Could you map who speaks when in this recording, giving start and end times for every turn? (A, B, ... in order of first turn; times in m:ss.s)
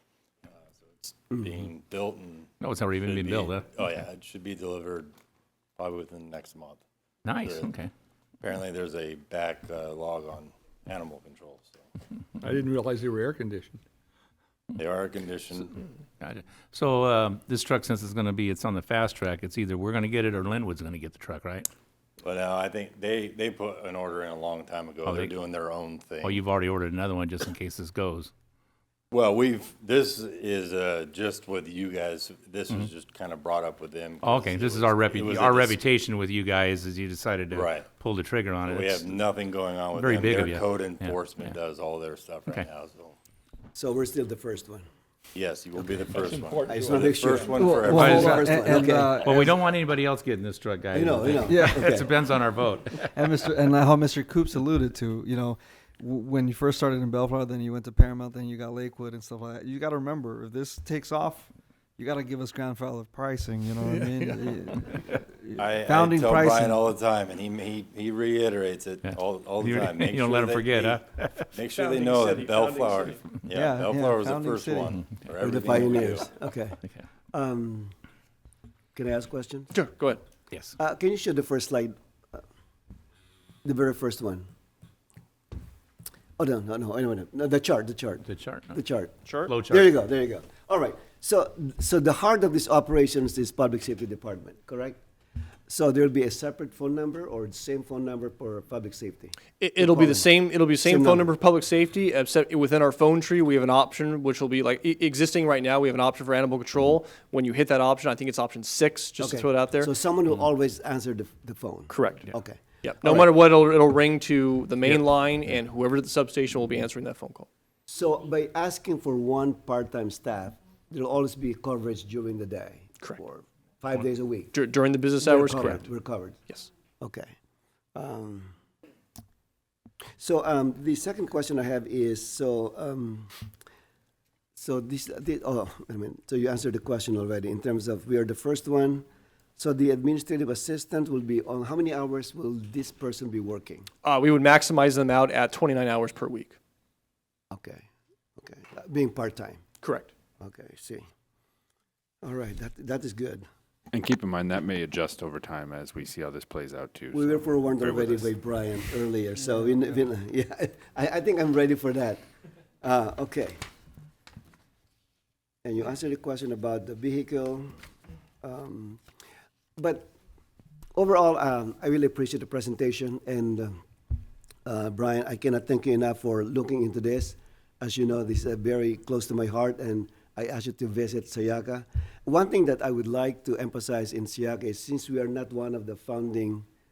0:00.8-0:05.1 A
0:02.6-0:03.7 B
0:05.8-0:06.8 A
0:07.2-0:07.9 B
0:07.4-0:07.7 A
0:08.4-0:11.8 A
0:12.4-0:13.8 C
0:14.8-0:15.8 A
0:16.2-0:21.7 B
0:22.2-0:26.4 A
0:25.1-0:25.3 B
0:26.2-0:28.3 B
0:29.1-0:35.8 A
0:34.2-0:39.2 B
0:37.5-0:37.9 A
0:38.6-0:43.2 A
0:39.9-0:41.6 B
0:43.8-0:44.8 D
0:45.3-0:48.8 A
0:46.6-0:49.3 D
0:47.8-0:49.5 E
0:48.0-0:48.4 B
0:49.2-0:53.1 B
0:50.9-0:52.1 D
0:51.4-0:51.9 E
0:53.1-1:06.8 E
1:05.6-1:16.3 A
1:09.1-1:11.5 B
1:12.2-1:13.0 C
1:13.5-1:15.0 E
1:15.4-1:16.8 D
1:17.3-1:17.9 D
1:18.9-1:19.7 D
1:19.7-1:20.2 F
1:20.5-1:20.8 B
1:20.8-1:22.4 D
1:23.6-1:24.5 D
1:26.4-1:35.0 D
1:28.3-1:28.8 B
1:29.2-1:29.5 F
1:29.5-1:29.9 B
1:35.7-1:41.3 D
1:39.6-1:49.9 F
1:49.2-1:53.3 D
1:51.9-1:57.5 F
1:57.9-2:04.6 D
2:04.5-2:05.9 F
2:05.2-2:06.4 D
2:07.0-2:07.3 D
2:07.9-2:08.5 D
2:10.2-2:13.3 D
2:14.6-2:19.1 D
2:19.6-2:23.9 D
2:24.0-2:26.6 F
2:27.5-2:27.8 D
2:28.4-2:29.6 D
2:29.8-2:30.1 F
2:30.4-2:31.1 D
2:32.2-2:33.5 D
2:33.9-2:38.3 G
2:37.1-2:42.2 D
2:42.8-2:43.6 D
2:45.6-2:47.7 D
2:48.4-2:49.0 D
2:49.8-2:50.1 D
2:50.9-2:53.8 D
2:54.6-3:06.7 D